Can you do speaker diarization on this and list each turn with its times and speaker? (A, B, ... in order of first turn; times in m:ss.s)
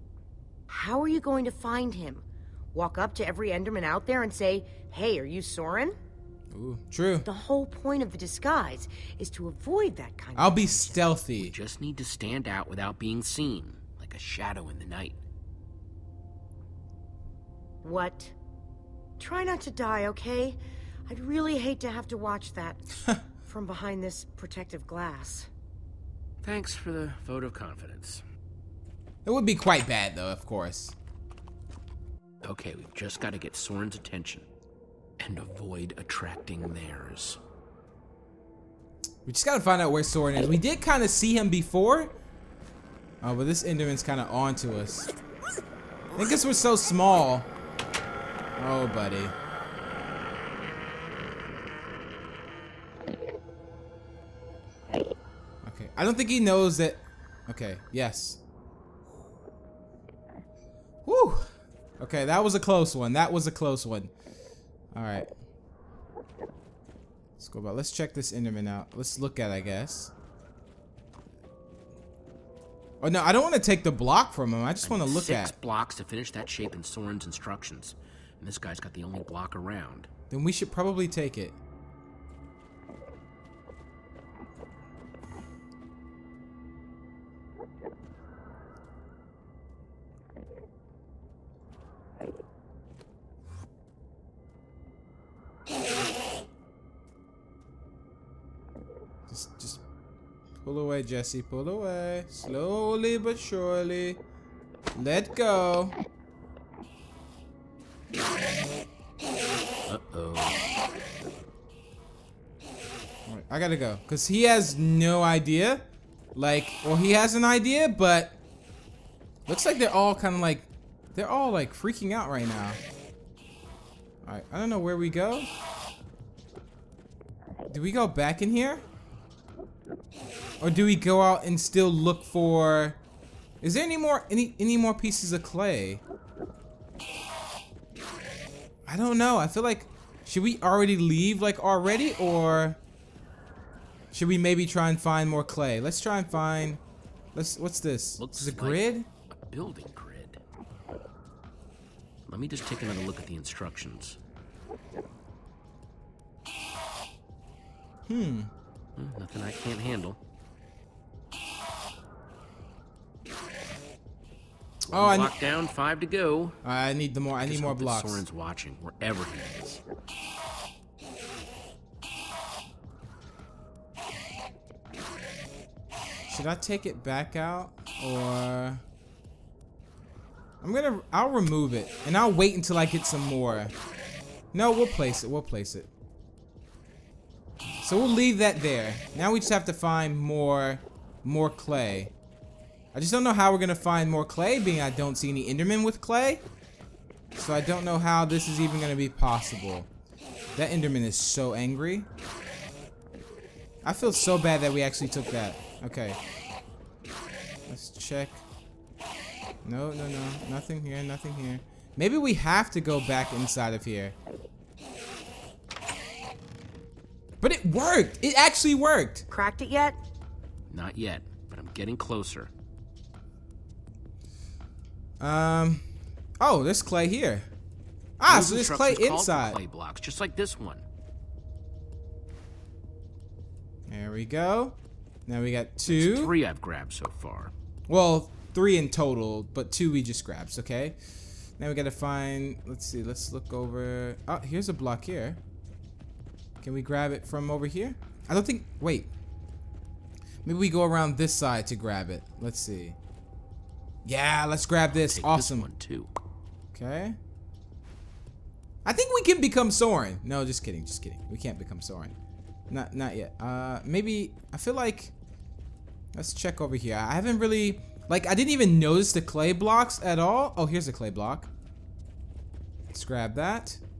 0:00.7-0:06.0 A
0:06.5-0:07.3 B
0:07.2-0:11.0 A
0:10.4-0:11.5 B
0:11.4-0:15.2 C
0:17.8-0:18.3 A
0:19.2-0:22.8 A
0:23.4-0:25.5 A
0:26.4-0:28.2 C
0:29.2-0:31.0 B
0:32.4-0:34.5 C
0:35.2-0:37.4 C
0:39.2-0:42.1 B
0:43.2-0:45.1 B
0:46.2-0:47.5 B
0:48.6-0:49.4 B
0:55.6-0:58.4 B
1:01.0-1:01.5 B
1:02.0-1:04.1 B
1:04.9-1:05.3 B
1:07.4-1:10.1 B
1:13.0-1:15.5 B
1:14.8-1:20.1 C
1:20.3-1:21.6 B
1:39.3-1:39.8 B
1:40.6-1:44.2 B
1:45.0-1:46.0 B
1:49.9-1:50.7 C
1:53.3-1:55.8 B
1:56.3-1:58.4 B
1:59.5-2:02.8 B
2:04.2-2:05.5 B
2:07.7-2:08.8 B
2:10.6-2:13.0 B
2:13.6-2:16.0 B
2:18.9-2:22.8 B
2:24.1-2:26.8 B
2:27.3-2:29.1 B
2:28.2-2:30.4 C
2:32.2-2:34.2 C
2:38.1-2:38.5 B
2:39.0-2:40.2 C
2:44.9-2:46.6 C
2:44.9-2:45.3 B
2:46.6-2:48.2 B
2:47.4-2:49.8 C
2:56.3-2:58.8 B
3:00.6-3:03.7 B
3:04.5-3:05.9 B
3:07.8-3:12.1 B
3:12.9-3:16.4 B
3:17.3-3:19.9 B
3:20.6-3:22.1 B
3:23.8-3:26.2 B
3:27.7-3:28.4 B
3:29.6-3:34.2 B
3:37.4-3:39.2 B
3:39.3-3:40.0 A
3:40.7-3:42.5 C
3:45.2-3:45.8 B
3:46.4-3:47.5 B
3:48.2-3:49.6 B
3:48.3-3:50.8 C
3:53.9-3:54.8 B
3:55.3-3:56.3 B
3:55.9-3:57.5 C
3:57.9-4:01.0 B
4:01.6-4:05.4 B
4:06.6-4:09.1 B
4:10.4-4:13.0 B
4:14.0-4:15.7 B
4:14.9-4:16.1 C
4:16.7-4:17.2 B
4:18.8-4:22.1 B
4:22.7-4:25.1 B
4:26.1-4:31.5 B
4:32.9-4:33.8 B